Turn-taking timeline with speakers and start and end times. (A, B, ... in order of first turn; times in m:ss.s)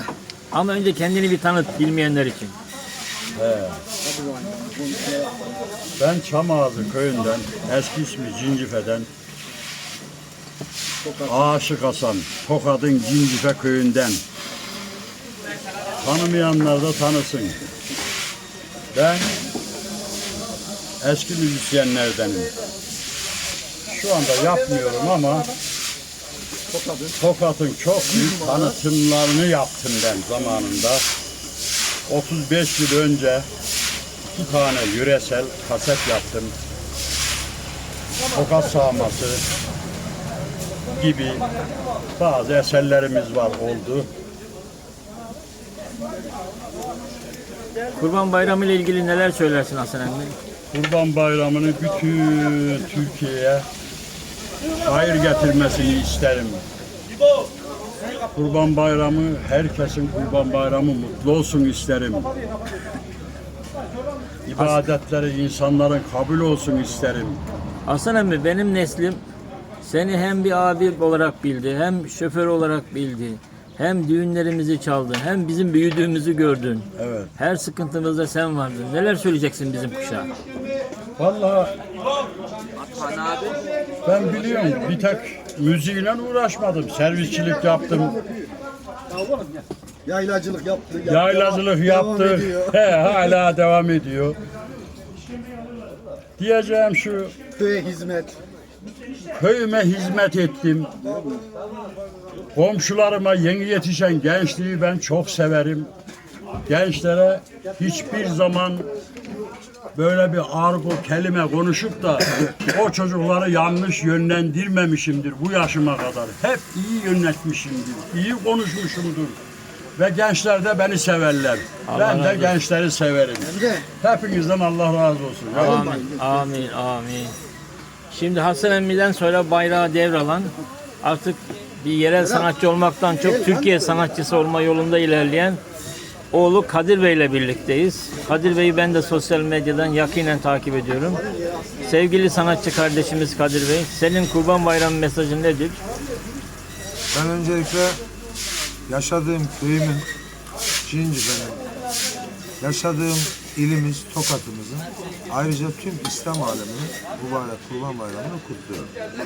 0:00.5-0:02.6 A
0:03.4-0:03.8 B
0:04.1-0:05.3 C
0:06.0-0:09.1 B
0:11.2-0:14.2 B
0:16.0-0:17.6 B
0:18.9-0:19.3 B
0:21.0-0:22.5 B
0:23.9-0:25.5 B
0:27.2-0:31.0 B
0:32.1-0:33.5 B
0:34.3-0:36.5 B
0:38.3-0:39.4 B
0:41.0-0:41.4 B
0:42.2-0:44.1 B
0:48.0-0:50.4 A
0:50.7-0:53.7 B
0:54.8-0:56.6 B
0:58.3-1:02.3 B
1:04.5-1:07.4 B
1:07.9-1:09.2 A
1:09.8-1:20.3 A
1:17.0-1:17.3 B
1:21.2-1:21.7 B
1:24.0-1:28.2 B
1:30.1-1:32.6 C
1:31.0-1:34.4 B
1:36.4-1:37.3 B
1:37.6-1:38.4 C
1:39.3-1:40.9 B
1:41.0-1:41.4 C
1:42.5-1:45.9 B
1:46.7-1:48.9 B
1:50.0-1:59.4 B
2:00.0-2:06.0 B
2:01.9-2:02.6 A
2:03.6-2:03.8 C
2:05.6-2:07.4 A
2:08.1-2:15.6 A
2:16.3-2:21.2 A
2:21.8-2:25.8 A
2:27.1-2:28.0 D
2:28.9-2:30.1 D
2:30.8-2:31.6 D
2:32.6-2:38.9 D